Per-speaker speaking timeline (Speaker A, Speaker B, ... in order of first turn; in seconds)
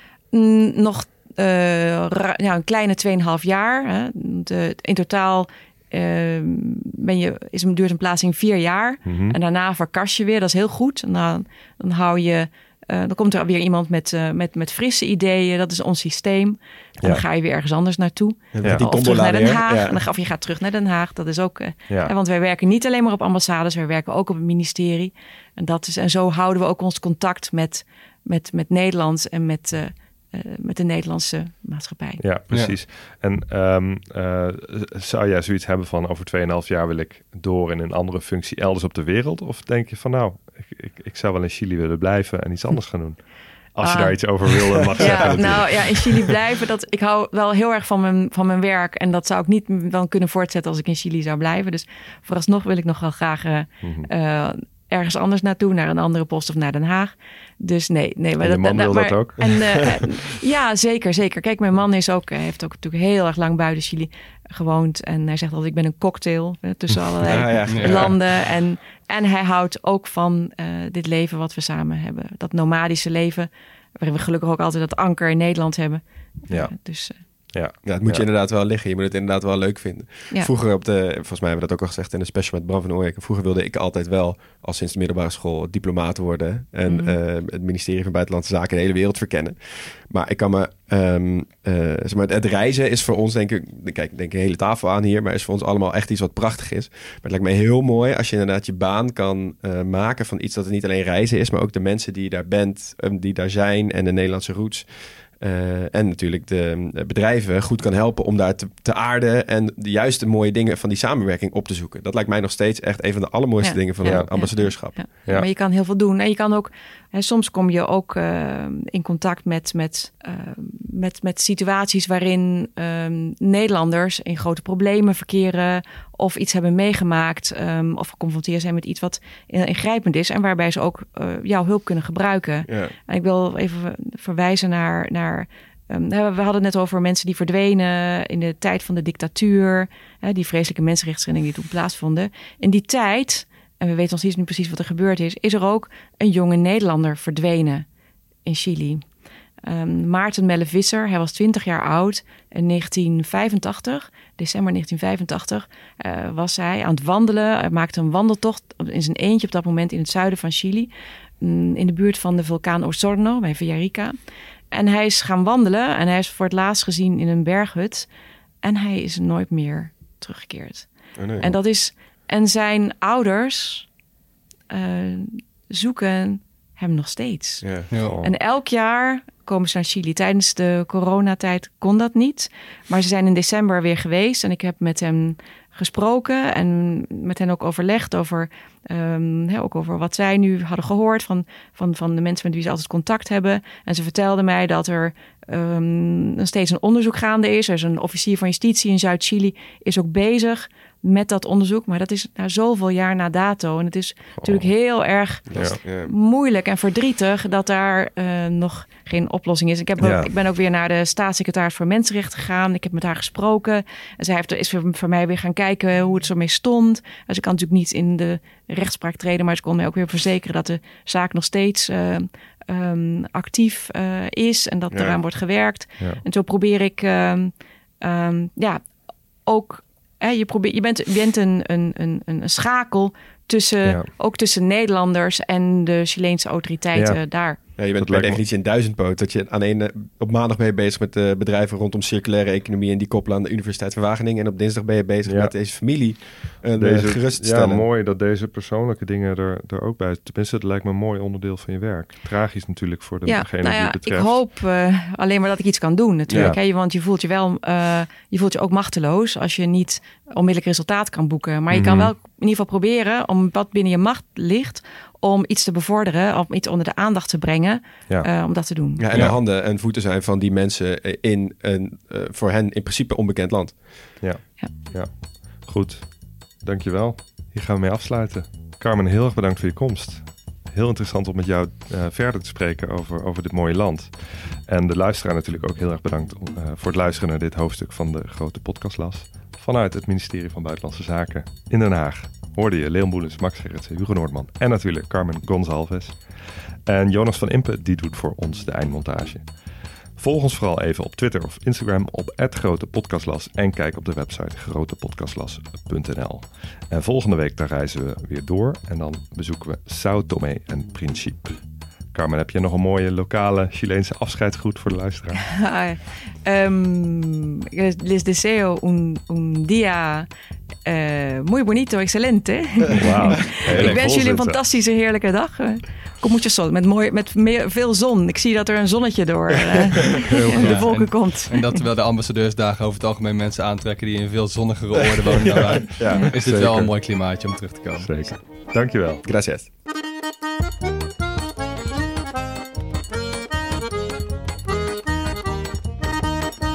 Speaker A: 0.3-32.2, 43.8-77.2, 86.9-87.2, 113.6-147.8, 148.4-149.0, 149.6-160.9, 161.4-164.2, 164.7-168.1, 168.6-173.9, 174.7-228.8, 229.4-237.6, 253.2-269.0, 315.5-320.3, 320.8-331.8
Speaker B: 9.0-9.4, 32.2-46.2, 53.8-54.1, 58.4-60.1, 76.5-76.7, 77.5-78.2, 114.0-114.3, 178.0-178.3, 204.4-204.7, 205.5-205.8, 210.0-210.3, 236.9-237.2, 237.9-238.4, 245.2-245.5, 246.8-254.4, 261.7-262.1, 274.2-299.5, 300.1-311.6, 312.1-315.5, 323.0-324.6, 330.5-330.8, 336.1-336.9, 338.0-339.2
Speaker C: 18.5-20.0, 45.0-45.7, 67.2-68.2, 77.8-115.0, 132.7-132.9, 171.2-171.6, 177.6-177.9, 205.5-206.1, 224.9-225.2, 237.8-247.8, 256.3-256.5, 269.0-274.1, 335.3-336.9, 339.2-339.7
Speaker D: 67.7-68.1, 323.7-324.0, 330.3-338.1